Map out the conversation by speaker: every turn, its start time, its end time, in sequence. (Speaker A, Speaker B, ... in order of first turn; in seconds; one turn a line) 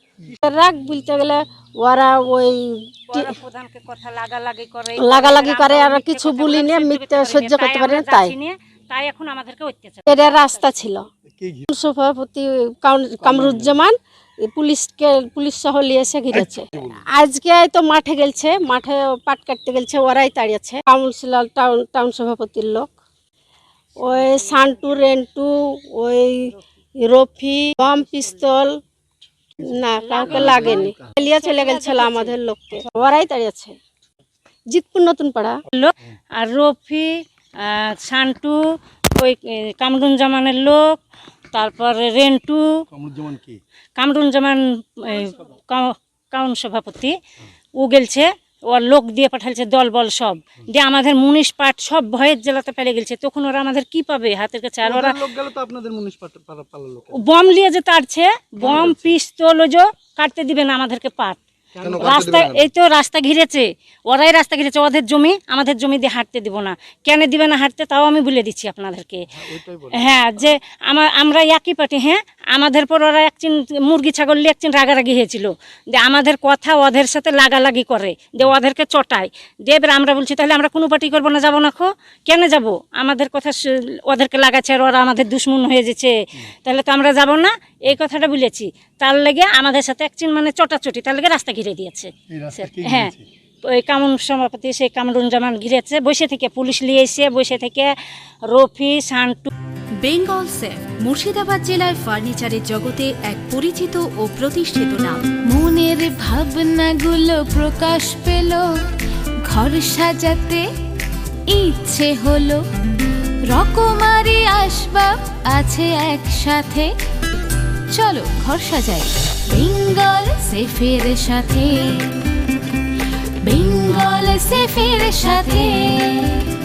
Speaker A: 0.4-3.3
Speaker B: 3.1-10.7
Speaker A: 5.0-8.3
Speaker A: 10.1-11.1
Speaker C: 11.3-11.7
Speaker A: 11.7-22.9
Speaker C: 13.2-13.8
Speaker C: 16.3-17.0
Speaker A: 24.0-28.7
Speaker B: 24.1-24.4
Speaker A: 29.6-33.8
Speaker B: 30.0-32.4
Speaker A: 34.7-35.5
Speaker B: 35.7-37.1
Speaker B: 37.6-38.6
Speaker B: 39.2-41.0
Speaker B: 41.5-42.6
Speaker C: 42.9-43.6
Speaker B: 44.0-47.2
Speaker B: 47.8-55.3
Speaker C: 54.8-57.2
Speaker B: 57.1-69.3
Speaker C: 58.6-59.1
Speaker C: 61.8-62.6
Speaker C: 69.5-70.1
Speaker B: 69.9-93.1
Speaker C: 92.3-93.2
Speaker B: 93.7-97.9
Speaker B: 98.5-99.5
Speaker D: 100.0-105.2
Speaker E: 105.5-108.6
Speaker E: 109.5-110.6
Speaker E: 111.5-112.6
Speaker E: 113.5-116.9
Speaker E: 118.0-121.7
Speaker E: 123.5-125.8
Speaker D: 125.3-125.7